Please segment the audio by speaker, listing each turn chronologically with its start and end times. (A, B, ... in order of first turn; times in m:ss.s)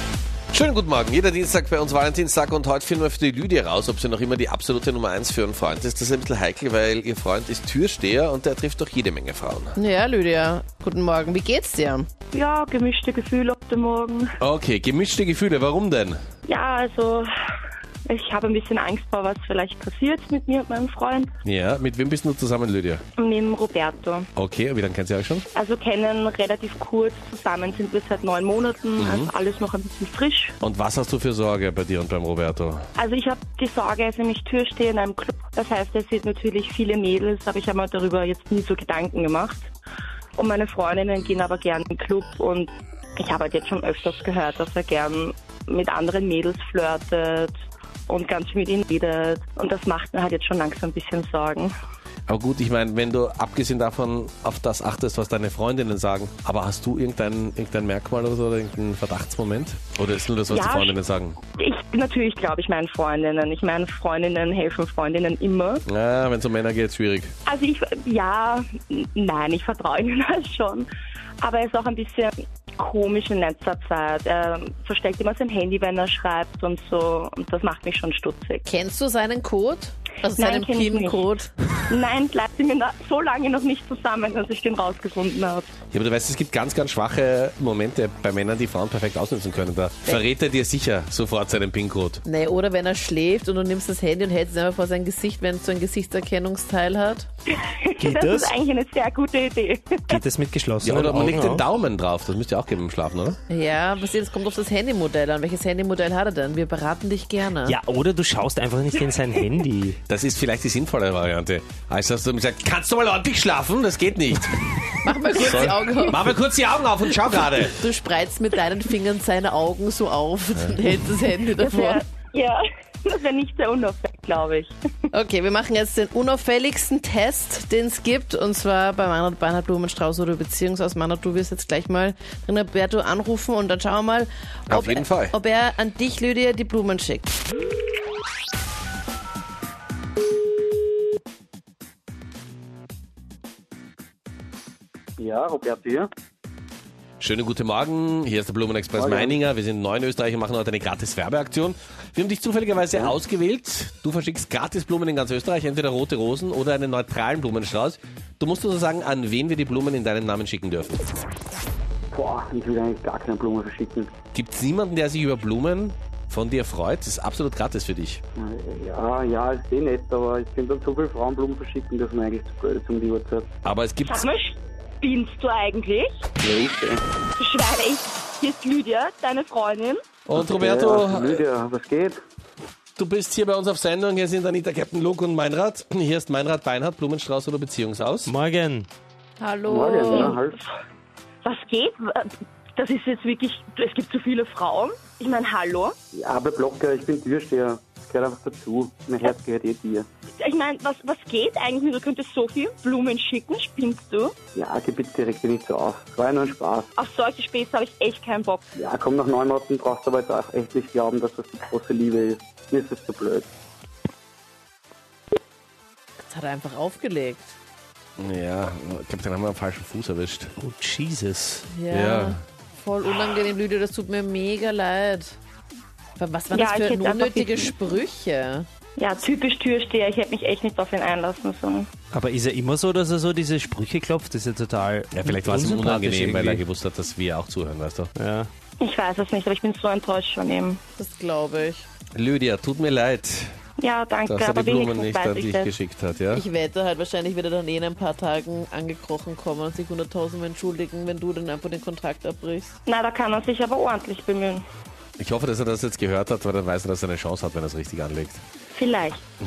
0:00.5-0:09.8 A
0:09.7-0:12.1 B
0:12.3-0:14.4 C
0:14.4-0:16.2 A
0:16.4-0:17.3 C
0:18.0-0:21.3 C
0:21.4-0:23.0 A
0:23.2-0:24.3 C
0:24.4-0:25.4 A
0:25.5-0:30.6 C
0:29.0-0:29.3 A
0:30.6-0:32.8 A
0:33.0-0:39.7 C
0:40.3-0:47.5 C
0:48.1-0:51.7 C
0:52.3-1:01.4 A
1:00.5-1:01.0 C
1:01.5-1:05.8 C
1:05.9-1:07.3 A
1:07.4-1:10.9 C
1:11.4-1:18.6 C
1:18.6-1:21.5 B
1:20.3-1:21.2 C
1:21.9-1:25.7 C
1:25.9-1:32.2 A
1:32.2-1:37.3 B
1:37.5-1:40.2 C
1:38.0-1:38.5 D
1:40.1-1:41.6 D
1:40.8-1:43.4 A
1:43.5-1:47.8 B
1:47.6-1:50.0 D
1:50.1-1:57.8 A
1:55.0-1:56.4 B
1:57.2-2:02.0 B
2:01.6-2:04.8 C
2:05.1-2:17.4 B
2:14.7-2:15.3 A
2:25.2-2:26.1 E
2:27.2-2:41.0 A
2:28.9-2:29.4 E
2:32.8-2:33.1 E
2:42.1-2:44.1 E
2:44.3-2:48.2 A
2:48.4-2:53.5 E
2:53.6-2:54.3 A
2:54.0-2:56.2 C
2:56.4-2:57.0 E
2:57.4-3:00.0 C
3:00.2-3:01.4 A
3:00.4-3:02.2 E
3:03.0-3:08.3 A
3:08.2-3:08.9 D
3:09.4-3:10.4 B
3:09.7-3:10.6 E
3:10.0-3:10.6 C
3:11.4-3:15.9 C
3:16.1-3:20.1 E
3:20.3-3:24.3 C
3:24.5-3:26.9 E
3:27.0-3:28.6 C
3:28.8-3:33.5 E
3:36.2-3:37.5 B
3:38.2-3:40.5 A
3:40.6-3:41.6 D
3:41.7-3:45.4 B
3:41.9-3:42.4 A
3:46.2-3:48.7 B
3:46.5-3:47.8 C
3:49.0-3:51.9 C
3:52.1-3:56.6 D
3:55.1-3:58.1 A
3:58.2-3:58.5 D
3:58.8-4:00.8 C
4:01.0-4:01.8 B
4:02.1-4:03.5 A
4:03.8-4:05.7 C
4:04.2-4:06.4 A
4:06.3-4:12.8 B
4:12.8-4:14.6 C
4:15.2-4:18.4 A
4:18.7-4:19.2 C